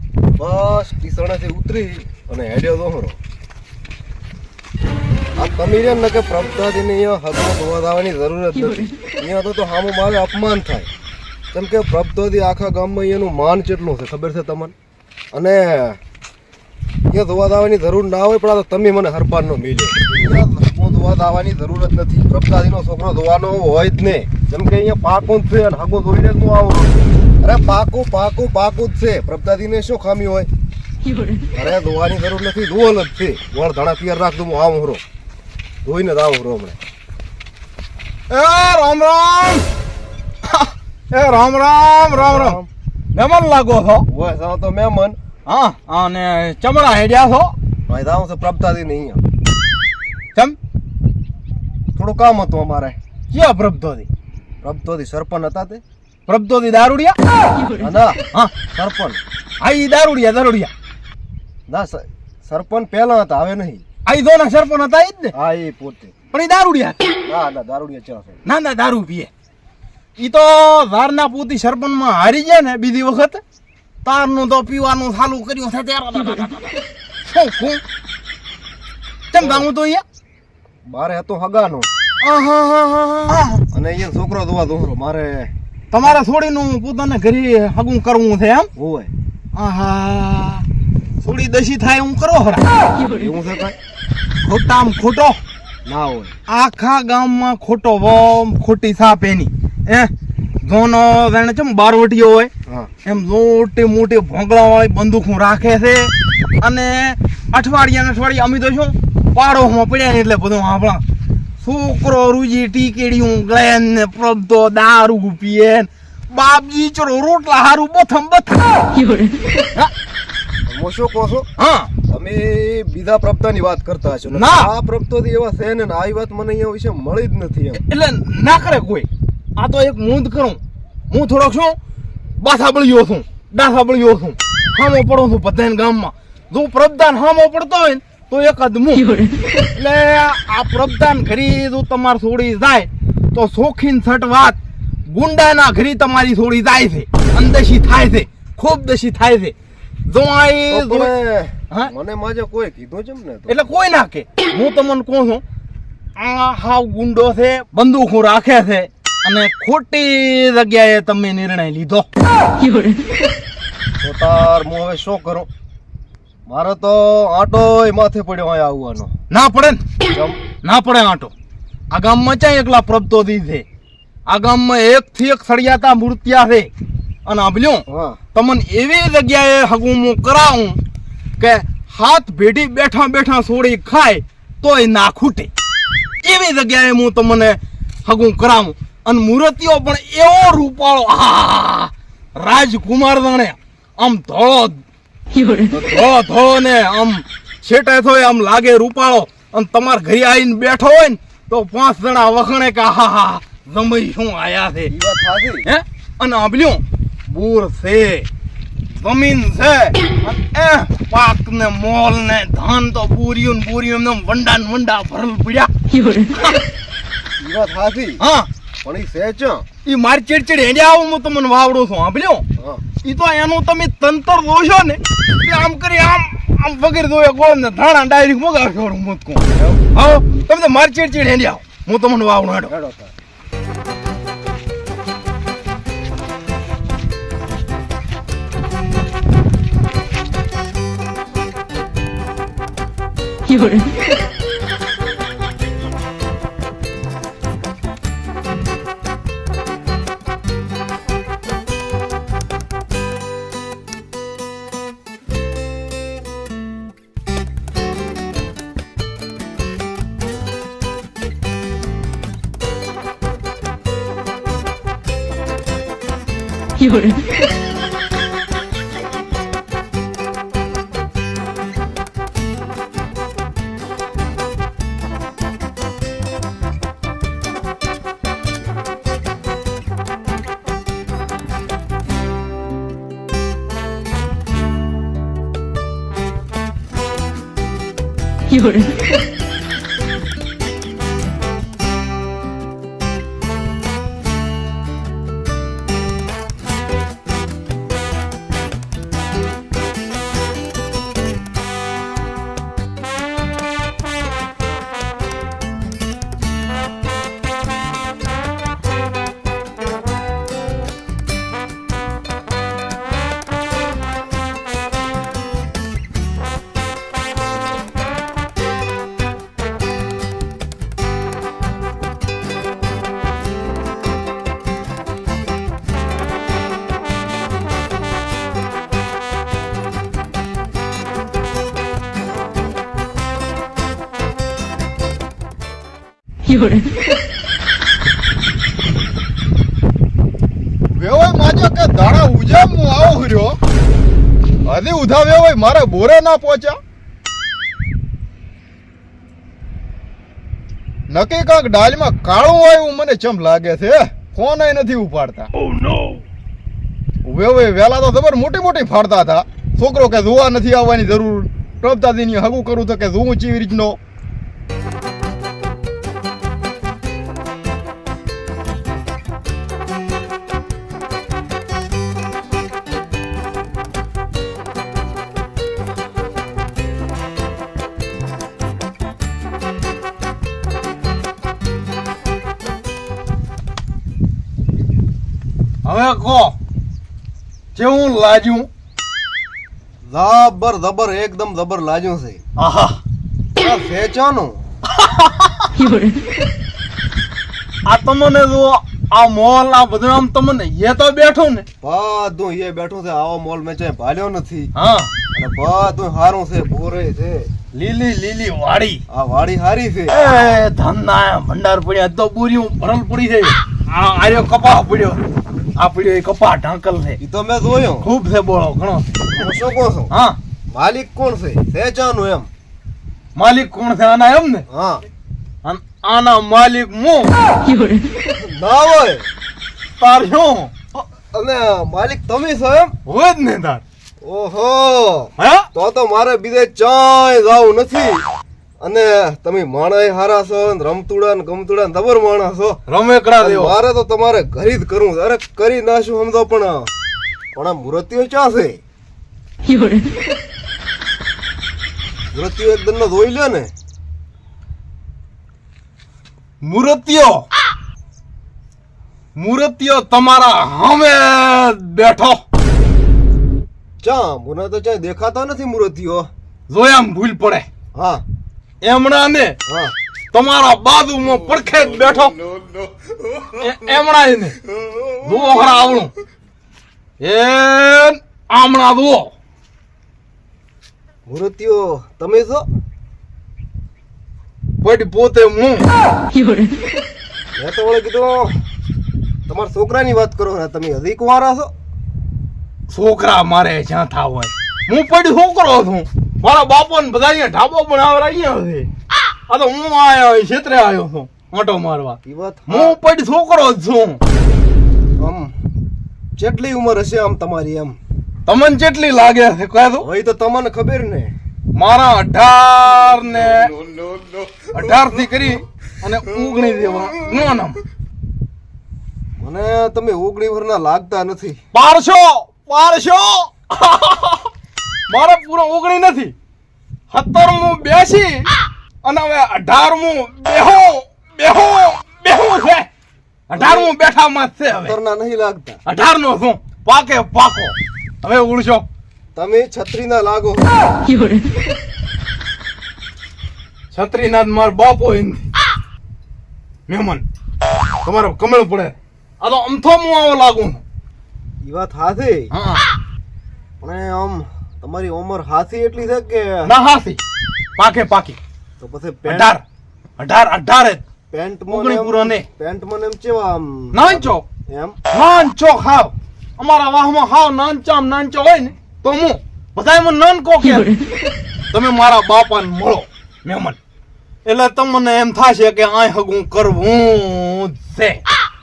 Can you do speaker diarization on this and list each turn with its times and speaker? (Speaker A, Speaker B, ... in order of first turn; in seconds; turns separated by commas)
Speaker A: 0.4-3.2, Speaker A: 5.4-10.9, Speaker A: 11.5-14.7, Speaker A: 15.3-16.0, Speaker A: 17.1-30.5, Speaker A: 31.5-35.0, Speaker A: 35.8-36.8, Speaker B: 38.3-39.6, Speaker B: 40.4-42.6, Speaker A: 42.1-42.7, Speaker B: 43.1-44.0, Speaker A: 44.1-45.2, Speaker B: 45.5-47.5, Speaker A: 47.9-49.2, Speaker A: 51.9-53.0, Speaker B: 53.3-54.1, Speaker A: 54.6-55.8, Speaker B: 56.3-57.2, Speaker A: 57.8-58.2, Speaker A: 58.7-59.2, Speaker B: 59.6-60.7, Speaker A: 61.7-63.8, Speaker B: 64.0-65.3, Speaker A: 65.3-66.1, Speaker B: 66.3-67.0, Speaker A: 67.3-68.4, Speaker B: 68.4-69.3, Speaker B: 70.2-73.4, Speaker B: 74.0-77.8, Speaker B: 79.3-80.0, Speaker A: 79.4-79.7, Speaker A: 80.8-81.9, Speaker B: 82.2-83.6, Speaker A: 83.7-85.5, Speaker B: 85.9-88.7, Speaker A: 88.8-89.1, Speaker B: 89.5-90.6, Speaker B: 91.2-92.7, Speaker A: 93.1-93.8, Speaker B: 94.4-95.4, Speaker A: 95.8-96.3, Speaker B: 96.5-102.5, Speaker B: 103.0-111.0, Speaker B: 111.6-118.9, Speaker A: 120.7-121.5, Speaker B: 121.6-121.9, Speaker A: 122.1-127.8, Speaker B: 124.3-124.7, Speaker B: 127.7-131.8, Speaker B: 132.4-139.1, Speaker B: 139.8-149.5, Speaker B: 150.1-151.1, Speaker A: 150.7-153.7, Speaker B: 153.5-155.4, Speaker B: 156.2-162.1, Speaker A: 164.0-165.5, Speaker A: 166.5-169.1, Speaker B: 169.3-169.8, Speaker A: 170.1-170.4, Speaker B: 170.6-171.3, Speaker B: 171.9-173.6, Speaker B: 174.2-176.7, Speaker B: 177.2-180.8, Speaker A: 177.9-178.2, Speaker B: 181.4-185.5, Speaker B: 186.2-194.8, Speaker A: 195.7-196.0, Speaker B: 195.8-204.9, Speaker A: 204.9-205.7, Speaker B: 205.7-208.3, Speaker B: 208.9-216.6, Speaker A: 217.4-218.2, Speaker B: 218.2-218.5, Speaker A: 218.8-219.6, Speaker B: 219.8-222.4, Speaker A: 222.6-222.8, Speaker B: 223.0-232.7, Speaker A: 232.7-233.1, Speaker C: 340.9-343.6, Speaker C: 344.6-346.8, Speaker C: 351.1-355.5, Speaker B: 355.6-356.2, Speaker C: 357.2-364.0, Speaker B: 385.8-386.6, Speaker B: 387.7-388.7, Speaker A: 390.1-392.4, Speaker B: 392.6-393.0, Speaker A: 393.6-394.6, Speaker B: 394.9-395.8, Speaker B: 397.9-401.7, Speaker A: 401.8-404.7, Speaker B: 404.7-405.1, Speaker A: 405.3-407.5, Speaker B: 407.7-409.0, Speaker A: 409.1-410.1, Speaker B: 410.1-415.2, Speaker B: 415.8-417.2, Speaker A: 417.2-418.1, Speaker B: 418.0-419.1, Speaker A: 419.3-420.1, Speaker B: 420.1-420.4, Speaker A: 420.7-422.5, Speaker B: 423.4-424.6, Speaker A: 424.7-425.0, Speaker B: 425.6-427.3, Speaker A: 428.3-429.3, Speaker B: 430.0-430.7, Speaker A: 431.3-432.9, Speaker B: 433.1-433.8, Speaker A: 434.2-438.2, Speaker B: 435.4-435.7, Speaker A: 438.8-442.8, Speaker B: 442.9-443.7, Speaker A: 443.4-446.9, Speaker A: 447.5-448.8, Speaker A: 452.3-453.7, Speaker B: 456.6-457.4, Speaker B: 459.4-462.4, Speaker A: 464.0-466.3, Speaker B: 466.7-467.7, Speaker A: 467.9-468.2, Speaker B: 468.8-469.6, Speaker A: 469.7-469.9, Speaker B: 470.3-472.4, Speaker B: 473.5-474.6, Speaker B: 475.2-476.1, Speaker B: 477.2-479.3, Speaker A: 481.3-482.6, Speaker B: 484.8-485.8, Speaker A: 487.6-488.5, Speaker A: 489.5-491.7, Speaker B: 492.9-498.9, Speaker B: 499.5-504.2, Speaker A: 502.2-503.0, Speaker A: 505.2-505.5, Speaker A: 506.4-508.0, Speaker B: 508.4-510.1, Speaker A: 510.0-511.3, Speaker B: 511.7-513.8, Speaker B: 514.7-517.8, Speaker A: 519.4-521.6, Speaker B: 521.7-524.5, Speaker B: 525.1-526.3, Speaker B: 527.1-528.5, Speaker B: 529.0-532.9, Speaker B: 533.5-534.9, Speaker A: 533.5-533.9, Speaker A: 534.8-535.8, Speaker B: 535.8-538.8, Speaker A: 539.3-540.7, Speaker B: 543.9-545.4, Speaker B: 546.9-547.2, Speaker B: 548.0-550.8, Speaker A: 551.6-552.5, Speaker B: 552.5-552.8, Speaker A: 553.8-556.7, Speaker B: 556.6-557.2, Speaker B: 557.8-558.4, Speaker A: 558.8-559.5, Speaker B: 559.2-559.6, Speaker B: 560.2-561.0, Speaker A: 561.3-565.0, Speaker B: 561.7-562.4, Speaker B: 563.9-564.4, Speaker B: 565.1-571.0, Speaker B: 571.7-573.8, Speaker B: 574.4-578.2